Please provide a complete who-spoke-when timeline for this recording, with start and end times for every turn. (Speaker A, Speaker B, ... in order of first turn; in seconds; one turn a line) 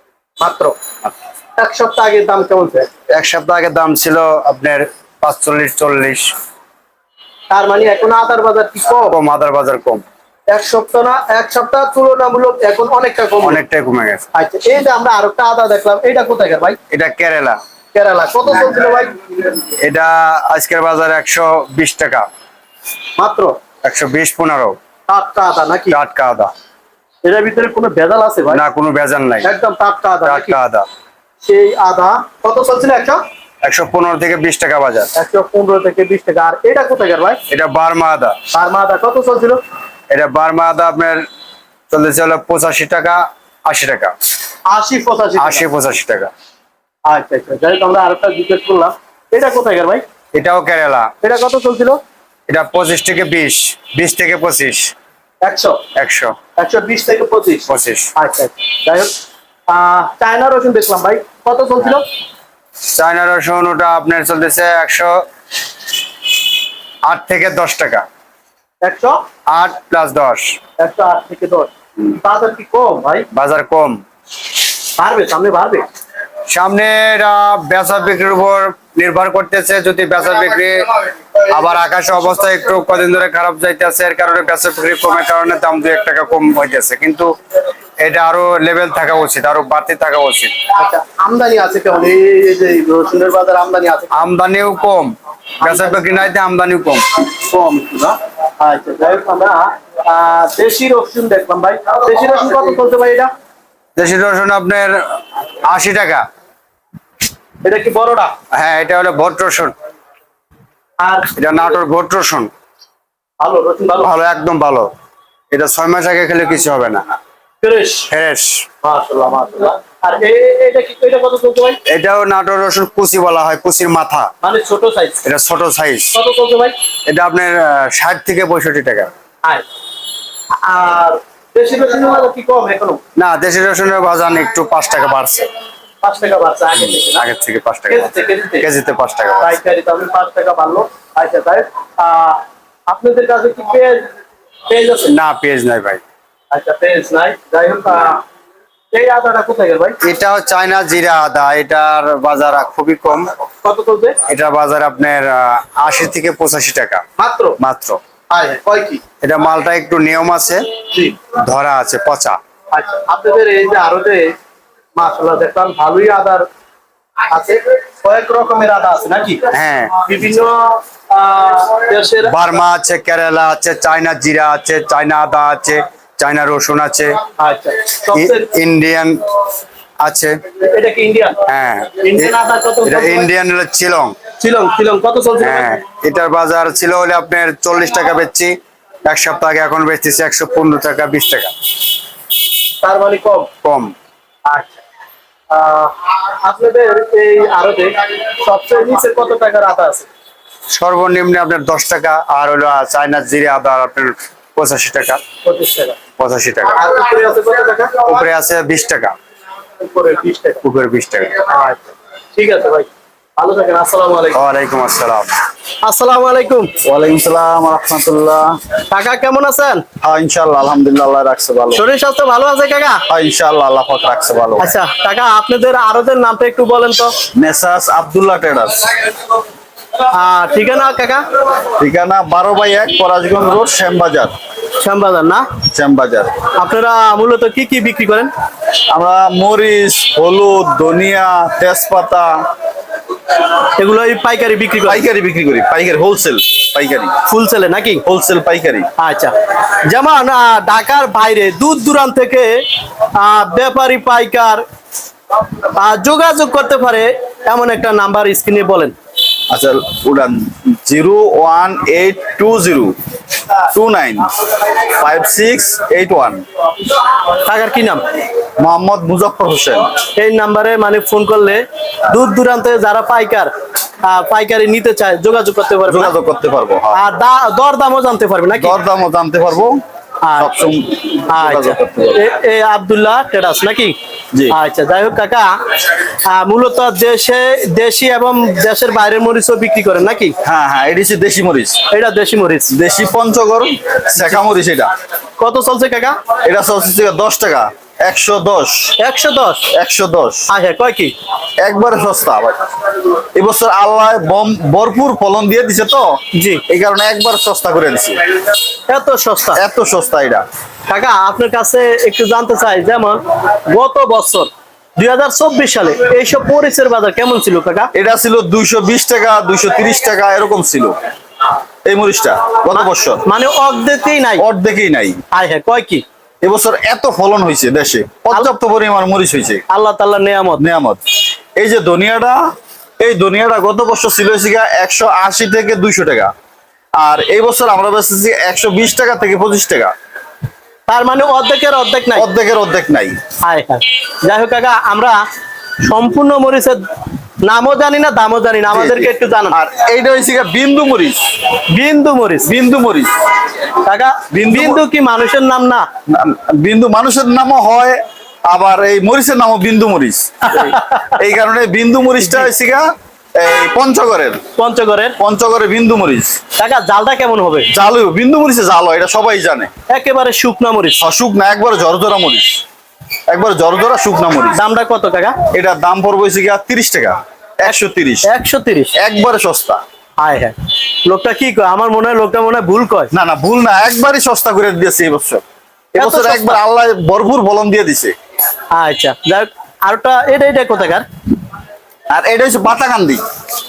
Speaker A: 0.4-0.8
Speaker A: 1.6-2.9
Speaker B: 3.1-6.3
Speaker A: 7.5-9.2
Speaker B: 9.1-10.0
Speaker A: 10.5-13.6
Speaker B: 13.4-14.2
Speaker A: 14.3-16.8
Speaker B: 16.9-17.6
Speaker A: 17.9-19.2
Speaker B: 19.8-22.3
Speaker A: 23.2-23.6
Speaker B: 23.8-24.8
Speaker A: 25.1-26.0
Speaker B: 25.9-26.5
Speaker A: 27.2-28.6
Speaker B: 28.5-29.5
Speaker A: 29.4-30.6
Speaker B: 30.2-30.9
Speaker A: 31.4-33.2
Speaker B: 33.6-35.1
Speaker A: 35.1-37.4
Speaker B: 37.5-38.4
Speaker A: 38.5-39.6
Speaker B: 40.1-41.2
Speaker B: 41.9-44.1
Speaker A: 44.7-45.6
Speaker B: 45.4-46.3
Speaker A: 47.1-50.0
Speaker B: 50.3-51.1
Speaker A: 51.2-52.0
Speaker B: 52.5-54.9
Speaker A: 55.4-55.8
Speaker B: 56.0-56.4
Speaker A: 56.6-59.1
Speaker B: 57.7-58.1
Speaker A: 59.7-62.0
Speaker B: 62.9-65.2
Speaker B: 67.0-68.0
Speaker A: 68.8-69.2
Speaker B: 69.5-70.6
Speaker A: 70.8-73.3
Speaker B: 73.3-74.0
Speaker A: 75.0-75.8
Speaker B: 76.5-80.9
Speaker B: 81.4-87.3
Speaker B: 88.0-90.5
Speaker A: 90.7-94.3
Speaker B: 94.1-97.2
Speaker A: 95.6-96.2
Speaker A: 97.5-103.3
Speaker B: 104.0-105.0
Speaker B: 105.6-106.2
Speaker A: 107.6-108.3
Speaker B: 108.5-109.7
Speaker A: 111.0-111.3
Speaker B: 111.4-112.5
Speaker A: 113.4-114.1
Speaker B: 114.0-114.9
Speaker B: 115.5-117.2
Speaker A: 117.6-118.1
Speaker B: 118.1-118.6
Speaker A: 118.8-121.8
Speaker B: 121.9-124.3
Speaker A: 124.4-125.2
Speaker B: 125.2-126.1
Speaker A: 126.1-126.7
Speaker B: 127.1-129.1
Speaker A: 130.6-133.0
Speaker B: 133.2-135.5
Speaker A: 136.0-137.2
Speaker B: 137.0-139.6
Speaker A: 137.9-138.7
Speaker A: 139.4-144.1
Speaker A: 144.7-145.1
Speaker B: 145.1-146.0
Speaker A: 146.5-148.2
Speaker A: 148.9-150.0
Speaker B: 150.0-153.3
Speaker A: 153.6-154.2
Speaker B: 154.3-157.0
Speaker A: 157.2-157.6
Speaker B: 157.6-158.0
Speaker A: 158.3-159.0
Speaker B: 159.2-160.6
Speaker B: 161.3-162.4
Speaker A: 162.7-164.3
Speaker A: 164.9-166.5
Speaker A: 167.3-169.5
Speaker B: 169.5-170.0
Speaker A: 170.0-172.3
Speaker B: 172.2-177.2
Speaker A: 177.4-178.5
Speaker B: 178.1-179.2
Speaker B: 180.0-180.4
Speaker A: 180.6-181.4
Speaker B: 181.5-184.1
Speaker A: 182.0-183.3
Speaker A: 184.4-185.8
Speaker B: 185.4-191.5
Speaker A: 192.8-193.5
Speaker B: 193.6-193.9
Speaker A: 194.5-194.8
Speaker A: 195.5-200.1
Speaker B: 200.7-205.2
Speaker A: 205.4-206.0
Speaker B: 206.2-206.8
Speaker A: 206.7-208.1
Speaker B: 208.1-209.1
Speaker A: 209.8-210.6
Speaker B: 210.6-211.4
Speaker A: 211.5-211.8
Speaker A: 212.3-214.4
Speaker B: 214.3-215.3
Speaker A: 215.8-216.7
Speaker C: 216.8-218.6
Speaker A: 218.9-219.8
Speaker C: 220.0-221.8
Speaker A: 221.7-223.0
Speaker C: 223.1-224.7
Speaker A: 224.6-227.1
Speaker C: 227.3-228.9
Speaker A: 230.1-231.2
Speaker C: 231.8-234.3
Speaker A: 234.8-235.4
Speaker C: 235.7-236.4
Speaker A: 236.5-238.3
Speaker C: 238.9-242.5
Speaker A: 243.8-245.0
Speaker C: 244.8-247.2
Speaker A: 247.2-248.0
Speaker C: 248.1-248.9
Speaker A: 249.0-252.6
Speaker A: 253.1-254.6
Speaker A: 255.6-258.9
Speaker C: 259.5-262.9
Speaker C: 263.7-264.3
Speaker C: 264.8-266.4
Speaker A: 267.4-268.0
Speaker C: 268.6-269.9
Speaker A: 270.1-273.5
Speaker A: 274.0-276.1
Speaker C: 275.9-277.0
Speaker A: 276.9-278.8
Speaker C: 278.5-279.8
Speaker A: 280.2-280.5
Speaker C: 280.4-282.2
Speaker A: 281.3-283.9
Speaker A: 284.5-285.6
Speaker A: 286.2-290.4
Speaker C: 290.4-291.8
Speaker A: 291.9-292.7
Speaker C: 292.7-294.9
Speaker A: 295.4-296.2
Speaker C: 296.4-298.9
Speaker A: 299.0-299.7
Speaker C: 299.7-300.5
Speaker A: 300.5-301.1
Speaker C: 301.6-302.7
Speaker C: 303.3-308.2
Speaker A: 306.3-306.6
Speaker A: 308.9-309.6
Speaker C: 309.6-310.4
Speaker A: 310.9-317.9
Speaker C: 317.9-321.0
Speaker C: 321.8-323.2
Speaker A: 322.7-324.4
Speaker C: 324.4-325.2
Speaker A: 325.3-326.0
Speaker C: 326.4-329.6
Speaker A: 329.7-330.6
Speaker C: 330.6-331.0
Speaker C: 331.6-336.3
Speaker C: 337.0-339.9
Speaker A: 340.9-342.2
Speaker C: 342.1-343.2
Speaker A: 343.4-345.2
Speaker A: 345.8-346.8
Speaker A: 347.4-349.6
Speaker C: 348.7-351.2
Speaker A: 351.7-352.5
Speaker C: 352.4-353.1
Speaker A: 353.9-355.8
Speaker C: 354.3-354.8
Speaker C: 356.1-364.4
Speaker A: 360.5-361.1
Speaker A: 364.6-365.1
Speaker C: 365.2-366.4
Speaker A: 366.6-367.7
Speaker C: 367.7-369.7
Speaker A: 369.9-371.0
Speaker C: 371.0-372.6
Speaker C: 373.3-374.6
Speaker A: 374.5-375.4
Speaker C: 375.5-378.3
Speaker A: 377.6-378.9
Speaker C: 379.0-379.8
Speaker A: 380.2-383.1
Speaker C: 383.1-385.4
Speaker C: 385.9-388.1
Speaker A: 386.0-386.6
Speaker A: 388.7-391.0
Speaker C: 392.1-393.2